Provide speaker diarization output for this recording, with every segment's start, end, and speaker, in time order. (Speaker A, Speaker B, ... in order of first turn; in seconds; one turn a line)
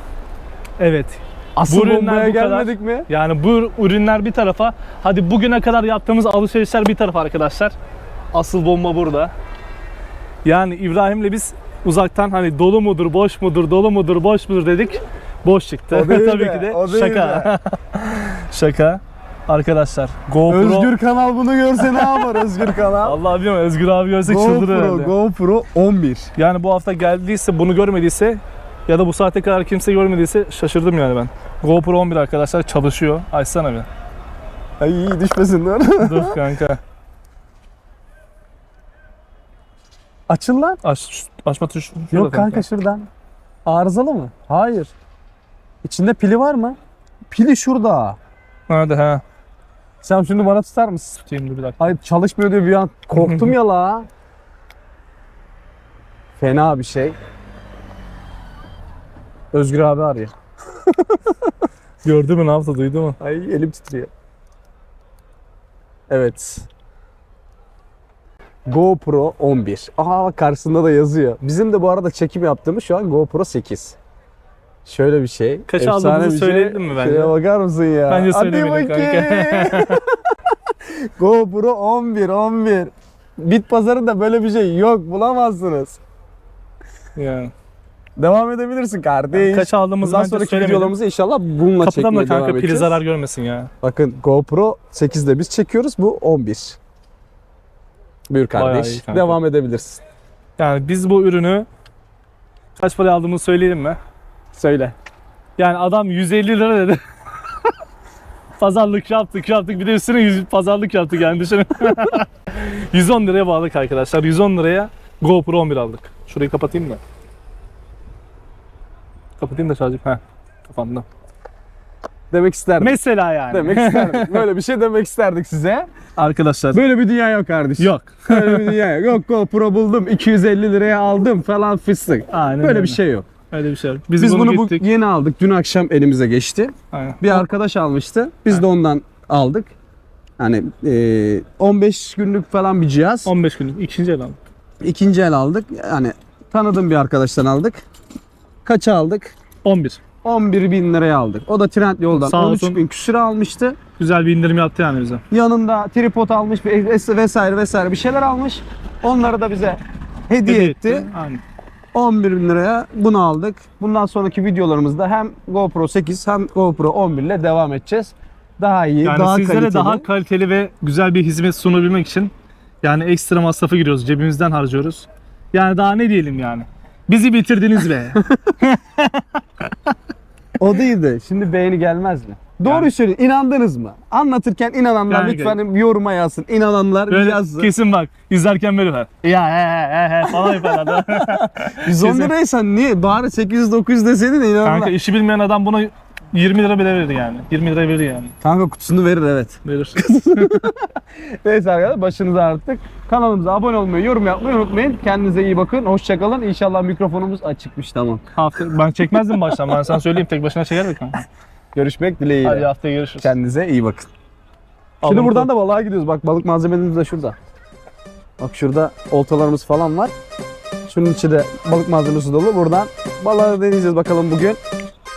Speaker A: 0.8-7.7
Speaker B: 1.6-3.1
Speaker A: 8.3-9.3
Speaker A: 10.4-20.9
Speaker B: 15.9-17.5
Speaker B: 20.5-23.2
Speaker A: 21.9-22.5
Speaker A: 23.0-25.1
Speaker B: 24.3-26.3
Speaker A: 26.4-33.9
Speaker B: 34.8-36.4
Speaker A: 36.0-36.8
Speaker B: 40.3-40.8
Speaker A: 40.8-42.6
Speaker B: 42.1-43.1
Speaker B: 43.6-44.9
Speaker B: 45.8-46.8
Speaker B: 47.3-48.2
Speaker A: 48.7-49.2
Speaker B: 50.0-51.2
Speaker A: 51.3-51.9
Speaker B: 51.8-54.1
Speaker A: 53.2-53.5
Speaker B: 56.4-57.2
Speaker B: 59.5-60.3
Speaker A: 62.0-63.2
Speaker B: 63.2-64.1
Speaker B: 66.1-66.7
Speaker B: 68.7-74.0
Speaker B: 74.8-86.0
Speaker A: 75.7-77.3
Speaker A: 78.1-80.0
Speaker A: 87.2-87.5
Speaker B: 88.2-93.0
Speaker A: 89.3-90.9
Speaker A: 91.8-93.7
Speaker B: 93.8-96.8
Speaker B: 98.3-100.0
Speaker A: 98.6-99.4
Speaker A: 100.6-101.7
Speaker A: 102.8-104.0
Speaker B: 104.5-105.0
Speaker A: 105.6-107.0
Speaker A: 108.6-117.0
Speaker A: 119.4-121.0
Speaker B: 122.3-123.0
Speaker A: 122.8-124.4
Speaker B: 123.5-125.9
Speaker A: 126.2-126.8
Speaker B: 126.7-133.3
Speaker A: 127.8-128.8
Speaker A: 132.3-134.9
Speaker B: 134.2-139.7
Speaker A: 136.9-137.4
Speaker B: 140.4-143.3
Speaker A: 143.2-144.4
Speaker B: 144.8-147.8
Speaker B: 148.7-149.4
Speaker A: 149.6-150.0
Speaker B: 150.2-153.8
Speaker A: 152.1-152.8
Speaker A: 154.0-155.2
Speaker B: 155.3-161.1
Speaker A: 160.4-161.4
Speaker B: 161.9-170.1
Speaker A: 169.0-179.9
Speaker B: 180.6-187.7
Speaker A: 182.6-182.9
Speaker A: 185.1-185.6
Speaker A: 187.1-192.3
Speaker B: 190.3-194.9
Speaker A: 194.6-198.3
Speaker B: 198.4-208.2
Speaker A: 199.7-200.7
Speaker A: 208.4-211.2
Speaker B: 211.8-212.7
Speaker A: 212.4-213.3
Speaker B: 213.2-214.1
Speaker A: 215.0-215.5
Speaker B: 215.0-217.4
Speaker B: 218.4-220.1
Speaker B: 220.9-224.6